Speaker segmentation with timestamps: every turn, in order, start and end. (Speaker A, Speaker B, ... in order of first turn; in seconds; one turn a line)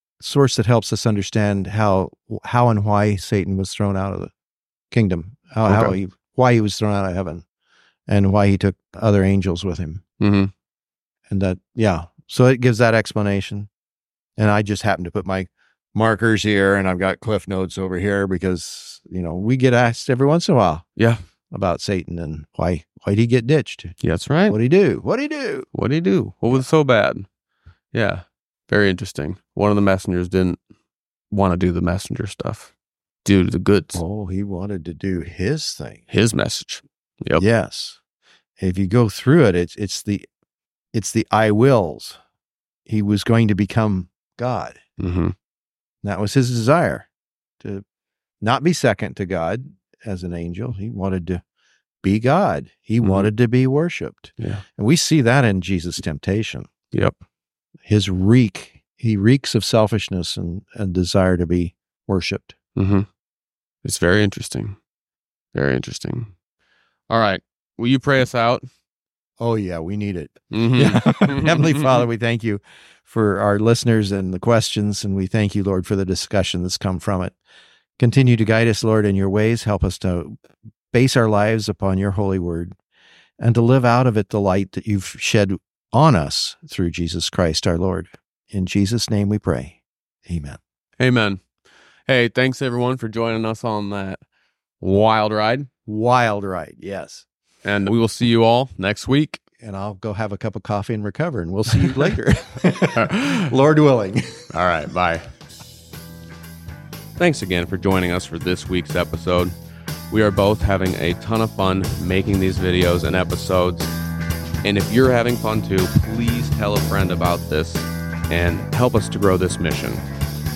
Speaker A: 0.2-4.3
Speaker A: 4.9-7.4
Speaker B: 5.6-6.0
Speaker A: 8.1-10.0
Speaker B: 10.2-10.5
Speaker A: 11.3-13.7
Speaker A: 14.4-20.9
Speaker B: 21.0-21.2
Speaker A: 21.5-23.9
Speaker B: 24.0-24.6
Speaker A: 24.5-25.7
Speaker B: 25.7-27.3
Speaker B: 27.9-30.6
Speaker B: 31.3-32.7
Speaker B: 33.2-34.0
Speaker A: 33.9-36.0
Speaker B: 36.1-37.4
Speaker A: 37.4-38.0
Speaker A: 38.6-40.3
Speaker A: 40.9-42.2
Speaker A: 42.9-44.8
Speaker B: 45.0-45.3
Speaker A: 46.0-47.1
Speaker A: 48.4-51.4
Speaker A: 52.0-56.7
Speaker B: 53.0-53.3
Speaker A: 57.9-62.5
Speaker B: 62.8-63.0
Speaker B: 63.8-64.8
Speaker B: 65.5-66.3
Speaker B: 67.1-68.6
Speaker A: 69.4-77.3
Speaker B: 70.5-71.9
Speaker A: 78.0-80.4
Speaker A: 80.9-82.8
Speaker A: 83.4-90.6
Speaker B: 91.0-91.4
Speaker B: 92.1-94.2
Speaker B: 94.8-95.7
Speaker A: 95.8-97.2
Speaker B: 97.6-99.4
Speaker A: 99.6-104.5
Speaker B: 102.9-103.5
Speaker B: 104.5-105.2
Speaker B: 107.2-109.5
Speaker B: 110.1-113.9
Speaker B: 114.6-120.0